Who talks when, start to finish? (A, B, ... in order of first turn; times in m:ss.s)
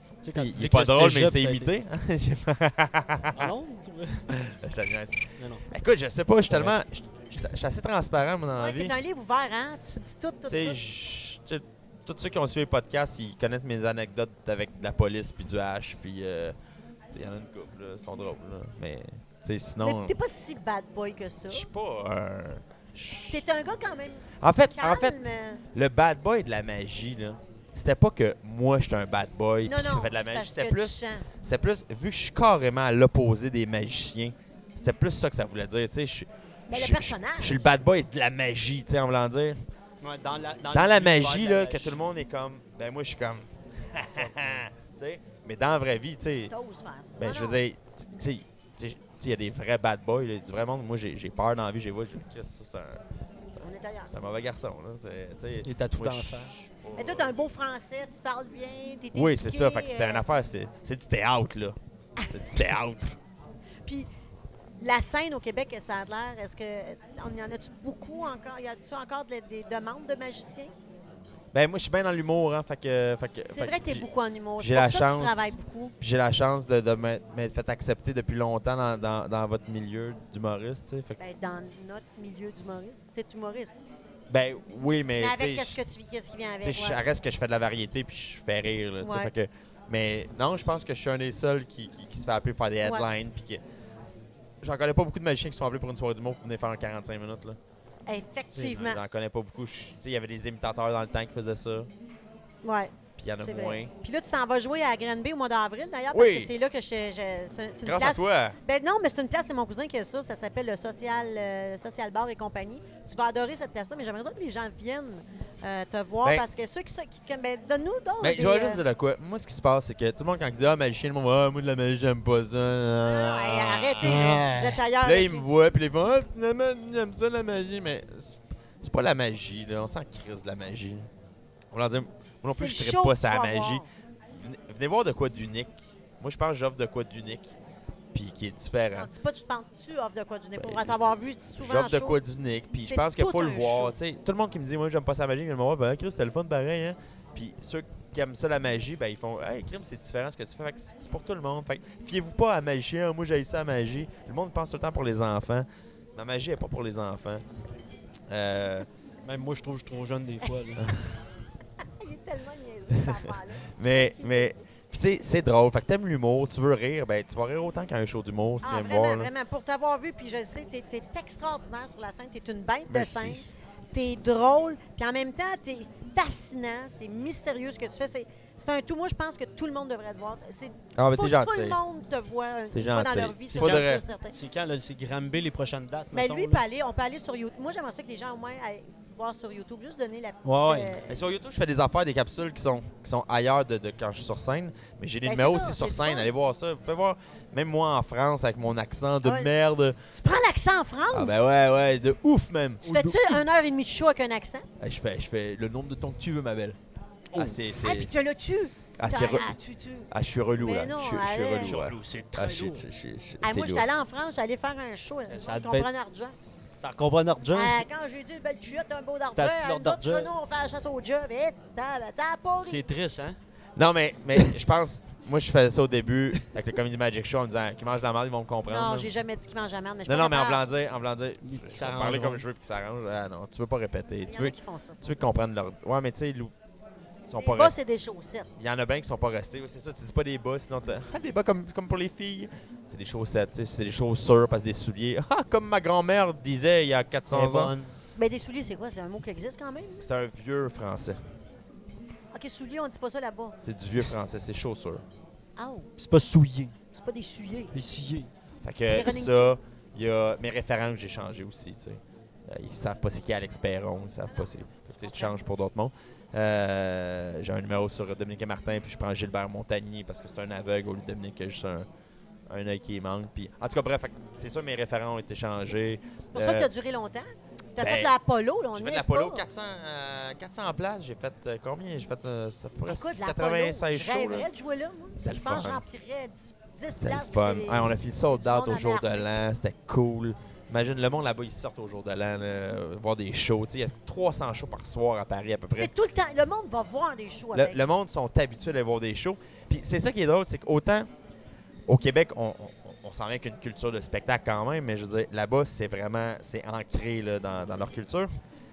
0:00.2-0:01.7 A
0:00.3-0:03.5 B
0:03.3-0:04.3 A
0:04.3-0:09.0 B
0:05.4-0:05.6 A
0:06.5-0:06.7 A
0:08.5-0:10.8 C
0:10.5-0:16.5 B
0:17.1-0:20.1 B
0:19.8-0:21.7 C
0:21.5-0:23.4 B
0:23.3-0:25.6 C
0:24.4-0:25.2 B
0:25.7-0:39.6 B
0:29.6-0:31.3 C
0:36.7-0:37.7 C
0:40.0-0:42.1 A
0:40.7-0:46.5 B
0:46.5-0:47.6 C
0:47.2-0:53.0 B
0:53.6-0:54.1 C
0:54.1-0:57.3 B
0:55.6-0:56.5 A
0:57.0-1:00.2 C
0:59.1-1:03.2 B
1:04.8-1:10.7 C
1:11.5-1:14.0 B
1:13.5-1:15.9 C
1:14.6-1:21.2 B
1:21.2-1:23.8 C
1:24.3-1:25.8 B
1:25.2-1:27.0 C
1:26.6-1:33.6 B
1:29.0-1:29.3 C
1:34.6-1:37.6 B
1:38.0-1:39.0 C
1:38.6-1:41.9 B
1:42.6-1:58.8 C
1:43.2-1:43.9 B
1:46.1-1:46.5 B
1:47.8-1:48.6 B
1:58.2-2:11.1 B
2:03.0-2:05.4 C
2:04.0-2:04.6 A
2:11.7-2:17.5 B
2:12.5-2:13.9 C
2:18.1-2:19.1 B
2:18.9-2:22.2 C
2:20.6-2:21.0 B
2:21.6-2:37.4 B
2:22.8-2:23.9 C
2:38.3-2:38.9 B
2:39.2-2:40.9 A
2:40.8-2:41.1 B
2:42.0-2:44.6 C
2:42.9-2:49.3 B
2:48.6-3:04.4 C
2:52.9-2:53.5 B
3:00.9-3:01.8 B
3:02.7-3:04.0 B
3:03.5-3:06.6 A
3:06.1-3:11.1 C
3:10.4-3:10.9 A
3:11.1-3:20.0 B
3:15.2-3:16.3 C
3:19.2-3:19.5 C
3:20.1-3:21.4 C
3:21.1-3:23.4 B
3:22.8-3:24.7 C
3:24.8-3:26.8 B
3:27.3-3:28.1 B
3:27.8-3:31.8 C
3:29.0-3:29.6 B
3:30.1-3:33.9 B
3:31.6-3:32.8 A
3:33.4-3:36.3 C
3:35.3-3:35.9 A
3:36.8-3:37.8 A
3:37.5-3:42.8 C
3:39.3-3:40.3 A
3:42.6-3:43.4 A
3:43.8-3:49.1 B
3:48.7-3:50.6 C
3:50.0-3:56.5 B
3:51.5-3:52.4 A
3:54.2-3:55.1 C
3:57.2-3:57.8 B
3:57.4-3:58.5 C
3:58.6-4:07.7 B
4:07.3-4:08.0 A
4:08.2-4:10.1 C
4:10.0-4:11.2 B
4:12.3-4:13.6 C
4:13.6-4:15.0 B
4:15.6-4:15.9 C
4:16.0-4:16.7 A
4:16.9-4:17.7 C
4:17.7-4:18.3 A
4:18.6-4:31.8 B
4:18.9-4:19.5 C
4:24.2-4:24.5 C
4:25.0-4:25.4 C
4:32.5-4:36.7 B
4:36.3-4:39.4 C
4:37.8-4:38.1 B
4:38.7-4:44.5 B
4:42.8-4:49.4 C
4:45.2-4:45.8 B
4:47.0-4:55.9 B
4:55.7-4:57.8 C
4:57.5-5:01.1 B
5:01.9-5:08.3 B